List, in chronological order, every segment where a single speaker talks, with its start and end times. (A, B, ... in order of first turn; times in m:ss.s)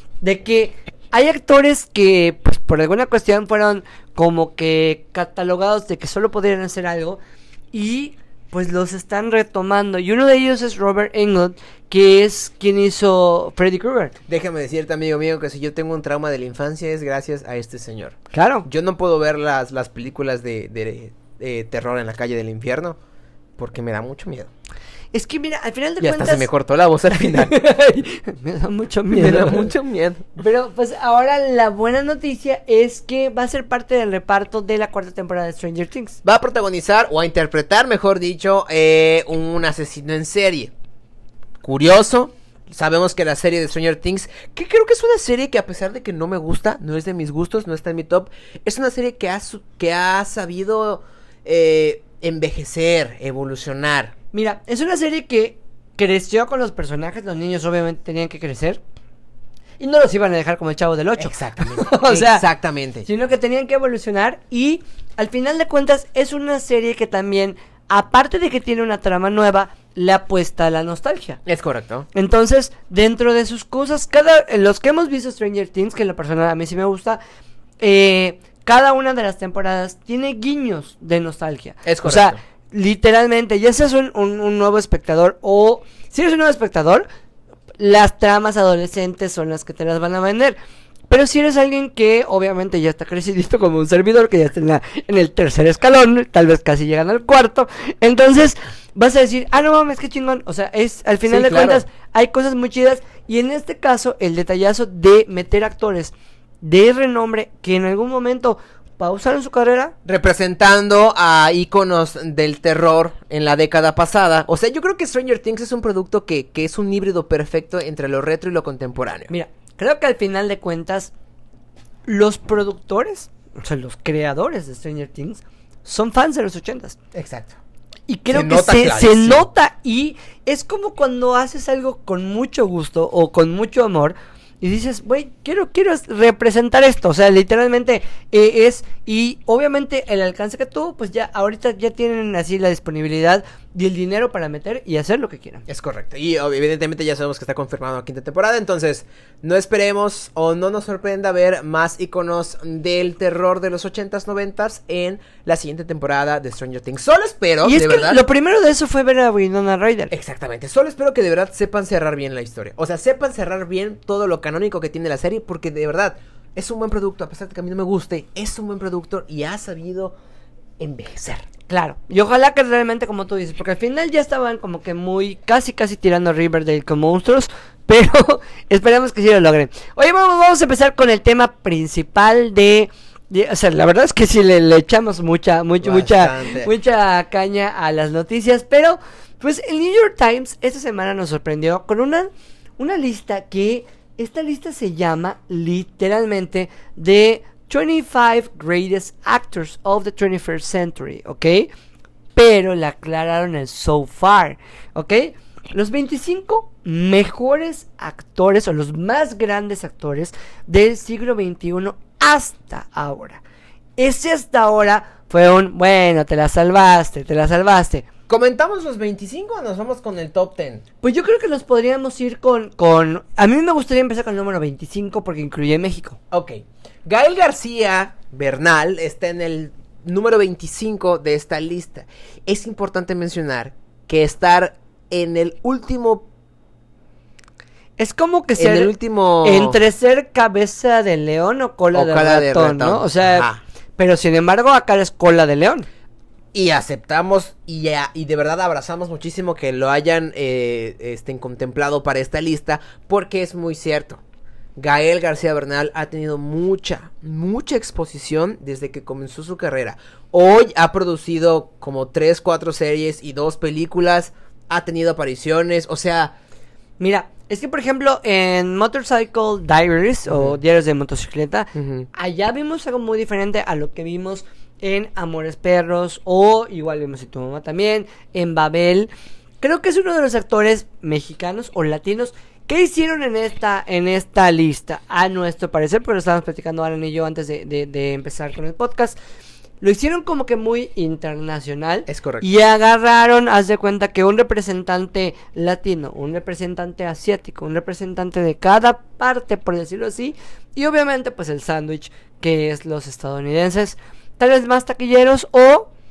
0:00.2-0:07.2 A
0:07.7-0:14.2 A
0:14.3-0:23.0 B
0:18.3-0:18.7 A
0:23.6-0:24.5 B
0:25.1-0:26.5 A
0:26.0-0:27.6 B
0:27.2-0:29.7 A
0:29.1-0:30.4 B
0:30.4-0:36.2 A
0:36.2-0:40.7 B
0:41.6-0:54.2 B
0:54.3-0:58.8 A
0:59.8-1:02.4 A
1:01.2-1:03.1 B
1:03.0-1:11.4 A
1:11.4-1:12.1 B
1:12.1-1:17.2 A
1:17.8-1:27.1 A
1:21.8-1:22.4 B
1:27.8-1:30.6 A
1:31.1-1:49.9 A
1:41.2-1:41.8 B
1:50.1-1:59.3 B
1:59.3-2:01.1 A
2:02.1-2:07.0 A
2:07.1-2:07.6 B
2:08.1-2:25.7 A
2:08.3-2:09.5 B
2:25.7-2:38.2 B
2:37.6-2:40.1 A
2:40.1-2:50.2 B
2:50.8-2:51.5 B
2:51.7-3:21.7 A
3:05.8-3:06.7 B
3:22.4-3:33.4 A
3:34.0-3:38.1 A
3:38.3-3:40.8 B
3:41.0-3:46.2 A
3:46.3-3:56.3 B
3:58.0-3:58.9 A
3:58.6-3:59.8 B
3:59.4-4:05.9 A
4:01.9-4:03.6 B
4:06.5-4:14.2 B
4:14.8-4:26.3 B
4:27.0-4:39.1 A
4:30.3-4:30.6 B
4:31.8-4:32.1 B
4:39.6-4:49.2 A
4:49.8-5:05.9 A
4:52.1-4:52.4 B